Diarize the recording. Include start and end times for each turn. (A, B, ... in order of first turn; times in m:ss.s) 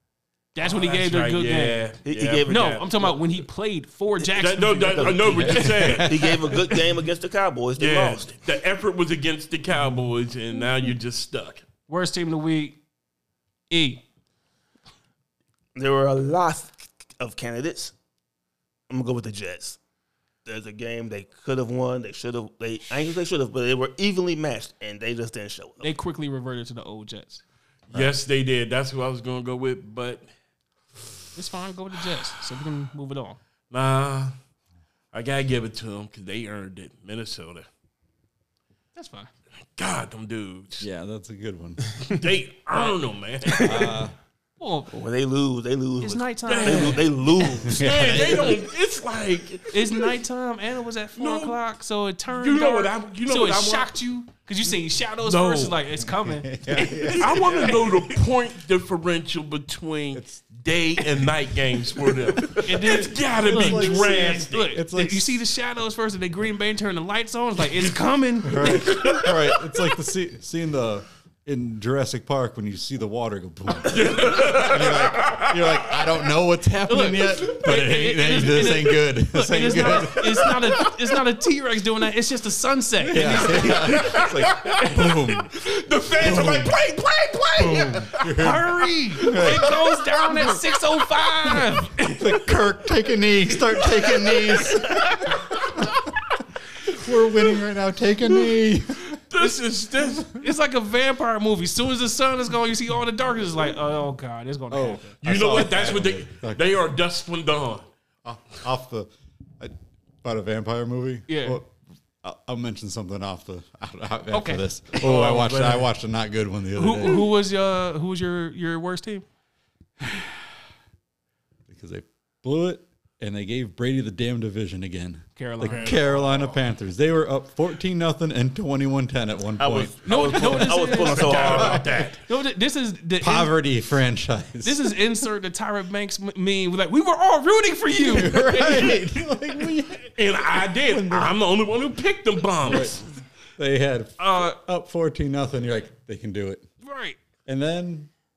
0:00.5-0:01.9 A
0:00.6-0:02.9 B
0:02.0-0:03.2 C
0:02.5-0:05.6 A
0:04.3-0:06.7 B
0:04.9-0:08.4 C
0:05.3-0:06.2 D
0:07.8-0:11.6 B
0:11.9-0:12.8 A
0:13.7-0:14.0 A
0:15.8-0:17.9 C
0:18.9-0:19.8 C
0:20.4-0:25.9 C
0:25.8-0:27.4 A
0:27.9-0:30.3 B
0:31.4-0:33.4 A
0:33.7-0:34.4 B
0:35.1-0:37.7 B
0:39.0-0:39.3 A
0:39.8-0:40.9 B
0:40.8-0:41.8 D
0:42.0-0:44.0 B
0:43.6-0:44.1 D
0:44.6-0:44.9 A
0:44.9-0:48.6 C
0:46.0-0:47.1 A
0:46.5-0:47.1 B
0:47.6-0:48.6 D
0:47.6-0:49.8 B
0:49.7-0:57.9 A
0:51.2-0:51.6 B
0:52.3-0:53.9 B
0:55.2-0:55.8 B
0:56.1-0:58.0 D
0:57.1-1:04.7 B
1:00.1-1:00.4 D
1:02.4-1:02.8 D
1:02.6-1:09.6 A
1:03.3-1:05.4 D
1:08.4-1:20.8 D
1:13.8-1:16.0 B
1:16.8-1:24.2 A
1:23.1-1:25.5 D
1:23.5-1:28.6 B
1:26.2-1:26.7 D
1:27.6-1:29.8 D
1:28.4-1:32.4 A
1:32.0-1:35.8 D
1:33.8-1:35.6 A
1:36.8-1:39.2 D
1:39.2-1:40.3 B
1:40.3-1:45.1 A
1:44.7-1:46.6 D
1:45.2-1:47.9 B
1:48.2-1:57.3 D
1:51.3-1:51.6 A
1:54.3-1:54.7 A
1:55.0-1:55.9 B
1:56.7-1:59.2 A
2:00.0-2:00.6 D
2:01.7-2:10.8 D
2:05.4-2:06.0 A
2:05.6-2:06.6 B
2:09.6-2:11.9 C
2:10.0-2:13.6 A
2:10.6-2:12.2 B
2:11.5-2:11.8 D
2:13.2-2:15.0 D
2:14.6-2:19.2 A
2:18.0-2:21.3 D
2:20.2-2:23.0 B
2:22.6-2:23.1 D
2:23.6-2:26.7 D
2:24.2-2:24.6 A
2:26.8-2:27.2 A
2:27.5-2:28.1 D